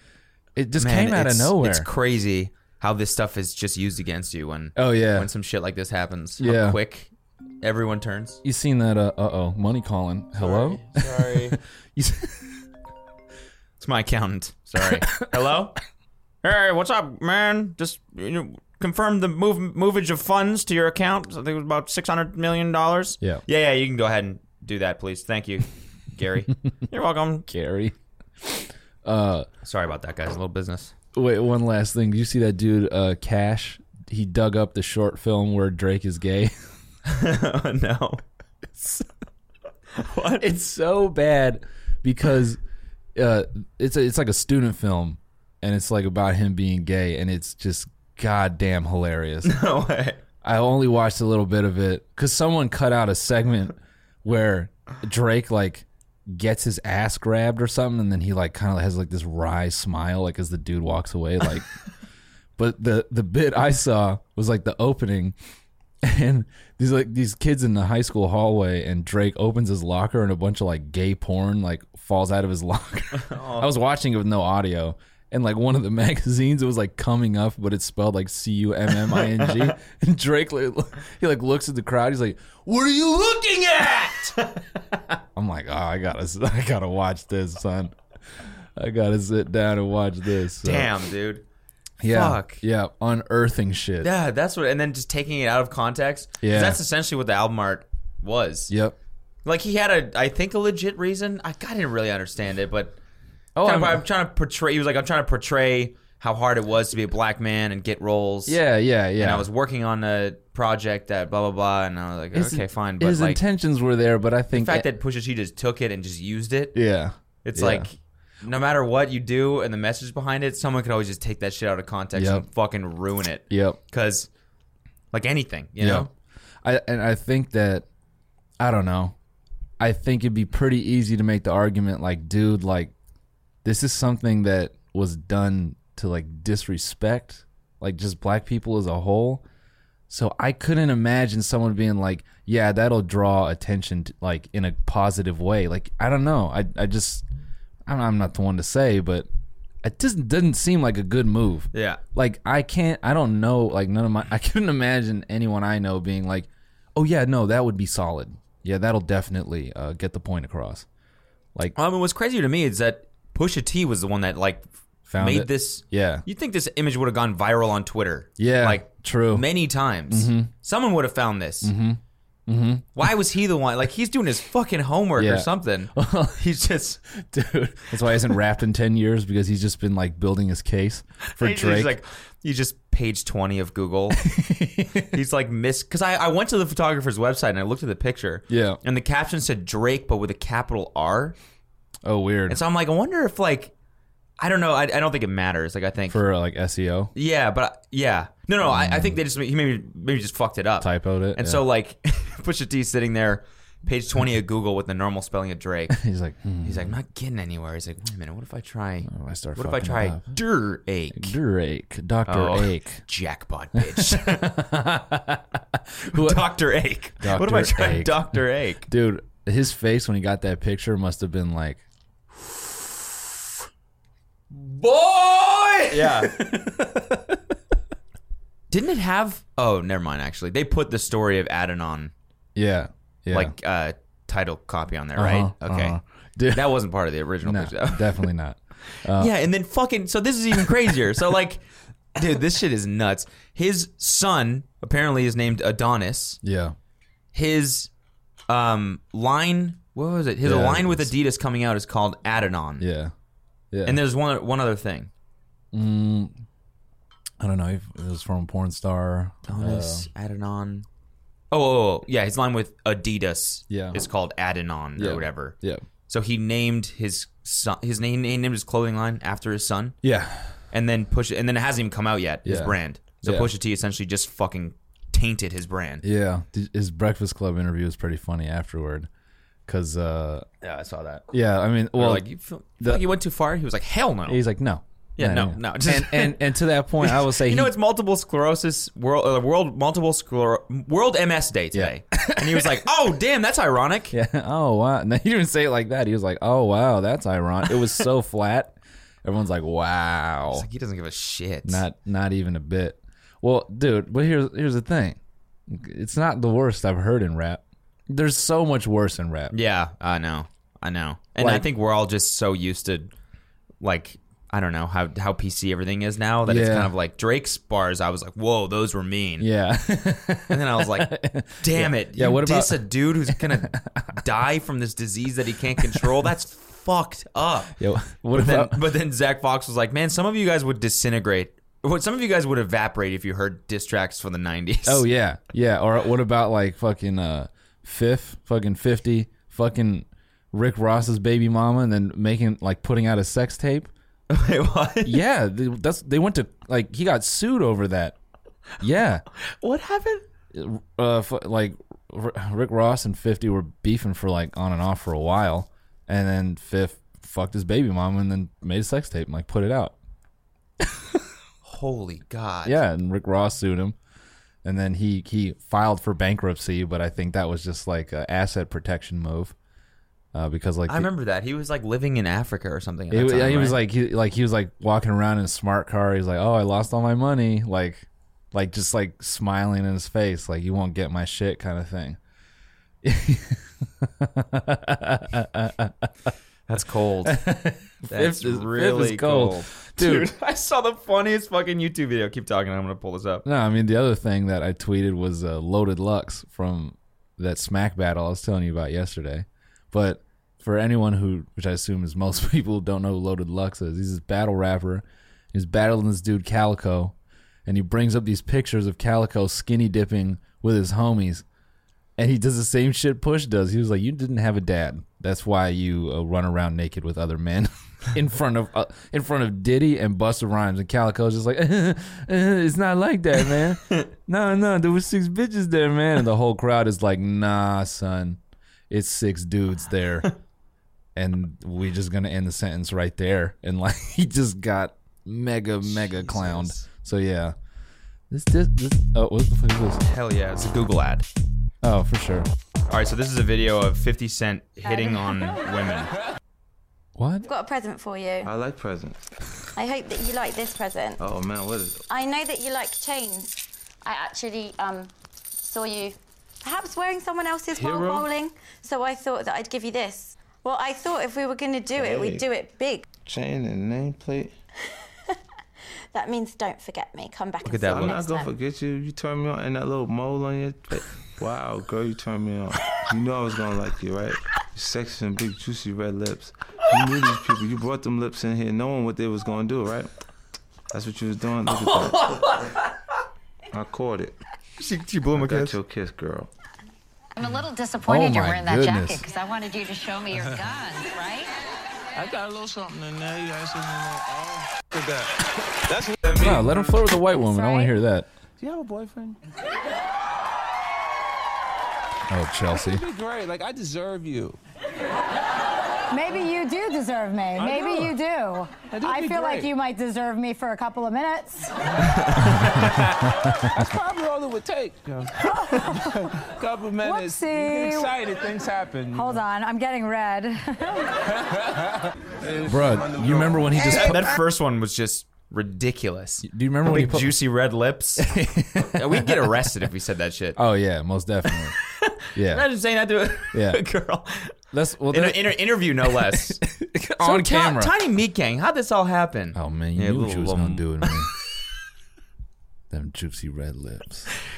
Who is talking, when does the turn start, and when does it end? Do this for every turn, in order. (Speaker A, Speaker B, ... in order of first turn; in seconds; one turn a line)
Speaker A: 0.6-1.9
Speaker B: 0.8-8.4
Speaker A: 4.7-5.3
Speaker A: 6.4-6.8
Speaker A: 8.4-12.6
Speaker B: 10.4-11.6
Speaker B: 13.8-15.8
Speaker B: 16.4-27.5
Speaker A: 27.5-29.5
Speaker B: 29.6-30.9
Speaker A: 31.1-36.5
Speaker B: 37.0-38.2
Speaker A: 38.8-39.1
Speaker B: 40.0-40.5
Speaker A: 40.4-42.6
Speaker A: 43.1-49.6
Speaker B: 49.4-50.2
Speaker A: 50.4-61.7
Speaker A: 62.6-65.3
Speaker A: 66.0-84.3
Speaker B: 73.2-73.7
Speaker B: 79.0-79.7
Speaker A: 85.3-87.9
Speaker A: 88.8-90.9
Speaker B: 90.6-91.4
Speaker A: 92.0-94.1
Speaker B: 92.0-92.6
Speaker B: 94.0-98.7
Speaker A: 96.4-96.8
Speaker A: 98.7-99.0
Speaker B: 99.4-103.0
Speaker A: 103.5-104.0
Speaker B: 103.6-108.6
Speaker A: 108.5-109.5
Speaker B: 109.2-113.4
Speaker A: 112.3-114.9
Speaker B: 114.5-116.7
Speaker A: 116.7-117.9
Speaker B: 117.4-124.3
Speaker A: 122.1-122.5
Speaker A: 123.5-123.8
Speaker B: 125.1-126.1
Speaker A: 125.8-126.1
Speaker A: 126.6-127.8
Speaker A: 128.6-129.1
Speaker A: 129.8-132.9
Speaker A: 133.6-139.4
Speaker A: 140.1-147.2
Speaker A: 147.8-149.3
Speaker A: 149.8-160.8
Speaker B: 151.7-152.0
Speaker B: 161.8-171.7
Speaker A: 165.1-166.2
Speaker A: 168.4-169.5
Speaker A: 170.1-170.5
Speaker A: 171.6-173.1
Speaker B: 172.9-177.0
Speaker A: 175.2-176.4
Speaker A: 177.2-181.9
Speaker B: 181.2-184.2
Speaker A: 184.2-185.2
Speaker B: 184.9-191.3
Speaker A: 188.5-188.8
Speaker A: 192.0-192.6
Speaker B: 192.5-193.7
Speaker B: 194.4-196.2
Speaker A: 196.1-197.1
Speaker B: 197.1-206.0
Speaker A: 198.6-199.2
Speaker A: 200.8-201.6
Speaker A: 205.9-206.9
Speaker B: 206.6-211.3
Speaker A: 209.1-210.3
Speaker A: 211.1-213.0
Speaker B: 212.3-214.5
Speaker A: 213.7-216.5
Speaker B: 216.1-218.9
Speaker A: 217.2-221.8
Speaker A: 222.3-223.4
Speaker A: 224.5-227.4
Speaker B: 225.9-226.3
Speaker B: 228.7-232.1
Speaker A: 232.5-233.5
Speaker B: 233.3-236.0
Speaker A: 235.2-236.8
Speaker B: 236.5-238.3
Speaker A: 237.4-239.3
Speaker B: 238.9-246.4
Speaker A: 246.4-246.8
Speaker B: 247.3-247.9
Speaker B: 248.5-252.9
Speaker A: 250.4-251.1
Speaker A: 252.8-253.1
Speaker A: 253.7-254.0
Speaker B: 253.8-255.1
Speaker A: 255.7-256.3
Speaker A: 257.4-260.1
Speaker B: 259.4-260.9
Speaker B: 261.5-265.5
Speaker A: 263.7-264.0
Speaker A: 264.9-265.8
Speaker B: 266.1-270.0
Speaker A: 270.0-270.5
Speaker B: 270.7-276.0
Speaker A: 272.4-273.5
Speaker A: 276.0-279.1
Speaker A: 279.7-280.5
Speaker B: 280.6-281.2
Speaker A: 281.3-282.2
Speaker B: 282.0-284.4
Speaker A: 282.8-283.1
Speaker A: 284.3-287.7
Speaker B: 285.2-294.1
Speaker A: 291.7-292.7
Speaker A: 294.1-300.6
Speaker B: 297.7-298.0
Speaker B: 300.5-301.8
Speaker A: 301.6-309.5
Speaker B: 309.5-313.1
Speaker A: 311.4-311.7
Speaker B: 313.8-319.5
Speaker A: 316.4-316.9
Speaker A: 319.4-324.2
Speaker B: 320.5-327.8
Speaker A: 327.8-328.8
Speaker B: 328.3-335.0
Speaker A: 334.9-343.9
Speaker B: 344.3-345.2
Speaker A: 345.0-348.1
Speaker A: 348.8-349.2
Speaker B: 349.6-350.2
Speaker A: 350.5-359.9
Speaker A: 360.8-361.2
Speaker B: 361.6-362.8
Speaker A: 362.6-363.9
Speaker A: 364.6-369.5
Speaker A: 370.3-371.1
Speaker B: 370.9-373.8
Speaker A: 373.1-382.2
Speaker A: 383.0-386.3
Speaker B: 386.7-387.4
Speaker A: 387.2-390.3
Speaker B: 388.1-393.4
Speaker A: 393.4-407.1
Speaker A: 407.6-411.4
Speaker A: 412.2-430.3
Speaker A: 431.1-437.6
Speaker B: 435.8-436.9
Speaker A: 438.3-440.0
Speaker B: 440.0-441.2
Speaker A: 441.8-442.5
Speaker B: 442.9-446.1
Speaker A: 447.1-447.5
Speaker C: 447.4-448.5
Speaker D: 448.4-449.2
Speaker C: 449.8-451.2
Speaker D: 451.2-452.0
Speaker C: 452.1-463.0
Speaker D: 457.7-458.3
Speaker D: 461.9-462.4
Speaker D: 463.2-464.5
Speaker C: 466.1-468.5
Speaker B: 467.6-468.2
Speaker D: 467.9-480.1
Speaker D: 480.9-482.5
Speaker A: 481.6-482.7
Speaker D: 483.7-484.4
Speaker B: 484.8-485.8
Speaker D: 485.3-486.5
Speaker E: 487.3-491.5
Speaker A: 488.0-489.2
Speaker D: 492.1-497.0
Speaker A: 496.4-498.3
Speaker C: 497.4-497.9
Speaker D: 498.6-499.4
Speaker A: 502.3-503.0
Speaker D: 502.7-504.6
Speaker F: 506.1-511.7
Speaker D: 507.5-508.1
Speaker D: 508.9-509.7
Speaker A: 512.4-513.0
Speaker D: 512.5-515.4
Speaker F: 515.5-516.3
Speaker D: 515.9-519.4
Speaker F: 517.0-518.1
Speaker F: 519.1-521.2
Speaker D: 521.5-523.8
Speaker A: 522.7-524.3
Speaker B: 523.8-530.6
Speaker A: 526.4-527.3
Speaker A: 528.2-529.5
Speaker A: 530.5-531.8
Speaker B: 531.5-534.5
Speaker A: 532.3-532.7
Speaker A: 533.5-533.8
Speaker A: 534.7-537.9
Speaker B: 535.1-536.6
Speaker B: 537.2-541.2
Speaker A: 539.5-541.3
Speaker A: 542.9-544.3